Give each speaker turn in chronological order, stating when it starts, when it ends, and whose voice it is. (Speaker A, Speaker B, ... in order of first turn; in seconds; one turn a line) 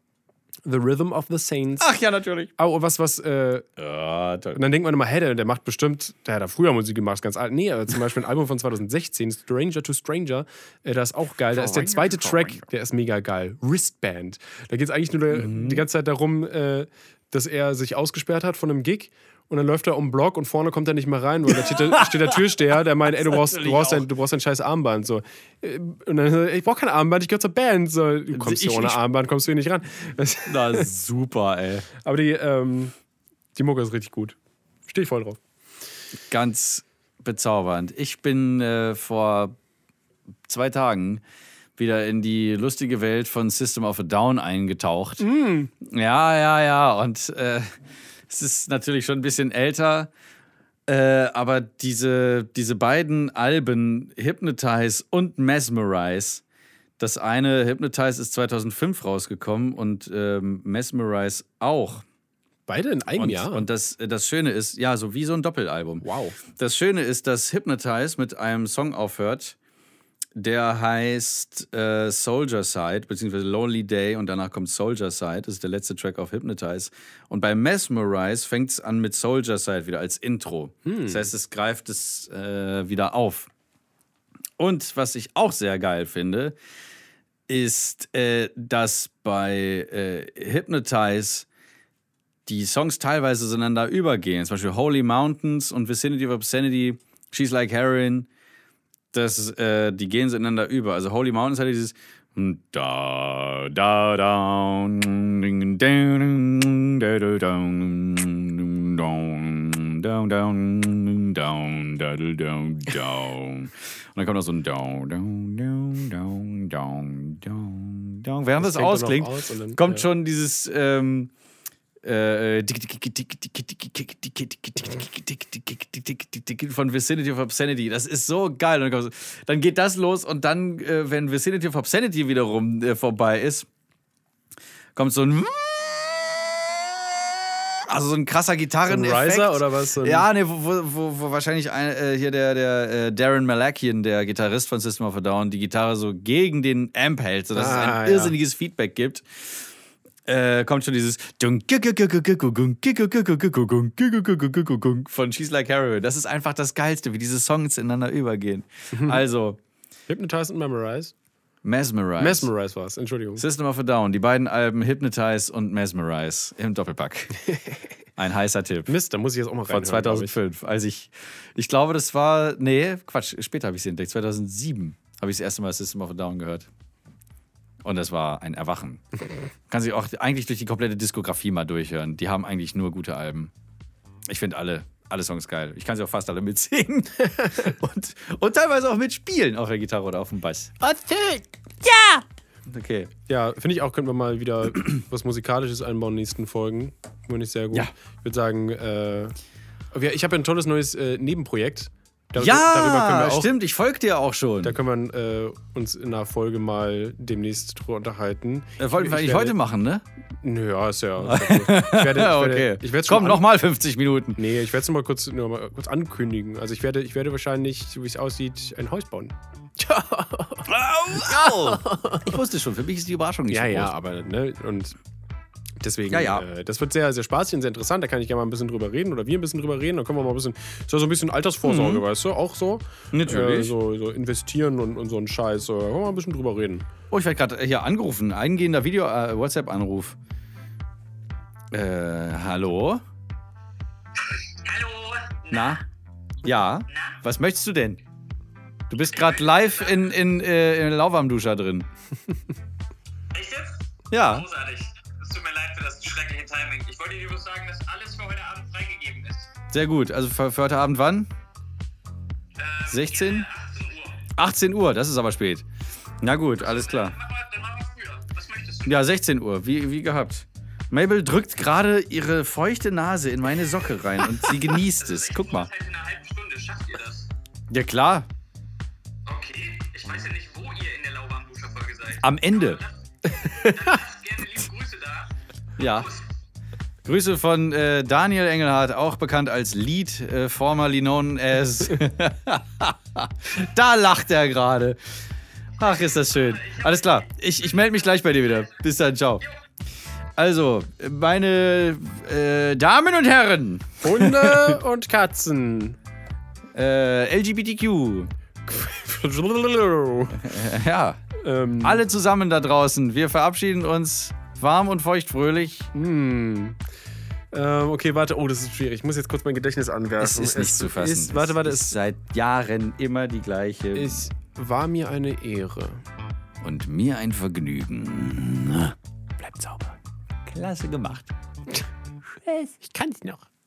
Speaker A: 0.6-1.9
Speaker B: 1.8-2.5
Speaker A: 2.6-3.7
Speaker B: 3.8-4.6
Speaker A: 4.5-30.9
Speaker B: 11.5-12.7
Speaker B: 15.3-15.8
Speaker B: 21.5-24.1
Speaker B: 28.3-29.0
Speaker B: 30.5-31.9
Speaker A: 32.0-32.9
Speaker A: 33.5-35.4
Speaker B: 36.3-39.5
Speaker B: 40.5-41.2
Speaker B: 41.8-45.2
Speaker A: 45.2-45.7
Speaker B: 45.8-47.8
Speaker B: 48.3-50.1
Speaker B: 50.9-56.4
Speaker B: 57.0-62.0
Speaker A: 62.7-63.6
Speaker B: 63.2-66.0
Speaker A: 66.0-66.4
Speaker B: 66.5-69.5
Speaker B: 70.4-83.5
Speaker A: 80.8-81.2
Speaker B: 84.6-86.6
Speaker B: 87.5-91.5
Speaker B: 92.5-98.3
Speaker B: 99.1-121.3
Speaker A: 118.6-120.0
Speaker B: 122.0-133.7
Speaker B: 134.9-149.7
Speaker A: 138.9-140.3
Speaker A: 147.5-148.3
Speaker B: 150.2-159.6
Speaker A: 158.9-159.2
Speaker A: 160.1-161.1
Speaker B: 161.6-162.5
Speaker A: 162.2-163.4
Speaker B: 163.4-167.4
Speaker B: 168.2-168.9
Speaker A: 168.9-170.3
Speaker B: 169.7-176.7
Speaker B: 177.8-179.0
Speaker B: 179.7-183.5
Speaker B: 184.3-190.8
Speaker A: 190.8-191.4
Speaker B: 191.8-193.1
Speaker A: 193.3-199.3
Speaker A: 199.9-203.5
Speaker B: 202.4-204.8
Speaker A: 204.6-209.6
Speaker B: 208.8-210.0
Speaker A: 210.4-213.4
Speaker B: 211.2-214.4
Speaker A: 214.3-220.7
Speaker B: 220.7-223.9
Speaker A: 221.2-222.3
Speaker A: 223.5-224.9
Speaker A: 225.8-236.9
Speaker B: 226.1-226.4
Speaker B: 231.6-232.0
Speaker B: 233.1-233.7
Speaker B: 237.1-240.2
Speaker B: 241.7-243.0
Speaker C: 244.2-245.8
Speaker B: 245.5-245.8
Speaker B: 246.4-248.0
Speaker C: 246.9-247.2
Speaker B: 248.9-251.9
Speaker C: 249.1-250.1
Speaker C: 253.3-253.7
Speaker B: 254.1-254.5
Speaker C: 254.2-259.5
Speaker B: 259.7-261.3
Speaker C: 262.6-264.3
Speaker B: 262.9-263.5
Speaker B: 264.4-265.6
Speaker B: 266.2-267.1
Speaker C: 266.6-268.9
Speaker B: 268.8-275.7
Speaker C: 275.0-277.3
Speaker B: 277.7-278.3
Speaker C: 279.2-285.3
Speaker B: 282.2-282.8
Speaker B: 285.8-286.1
Speaker C: 285.8-286.2
Speaker B: 287.0-295.0
Speaker B: 295.8-299.4
Speaker C: 295.8-298.6
Speaker B: 300.4-304.8
Speaker A: 304.0-306.0
Speaker B: 306.7-308.3
Speaker A: 308.6-310.6
Speaker B: 310.4-311.2
Speaker A: 311.4-312.0
Speaker B: 311.8-315.9
Speaker A: 315.9-316.8
Speaker A: 317.5-322.0
Speaker B: 320.2-324.2
Speaker A: 323.9-326.0
Speaker B: 326.6-331.3
Speaker B: 332.4-332.7
Speaker A: 332.8-333.4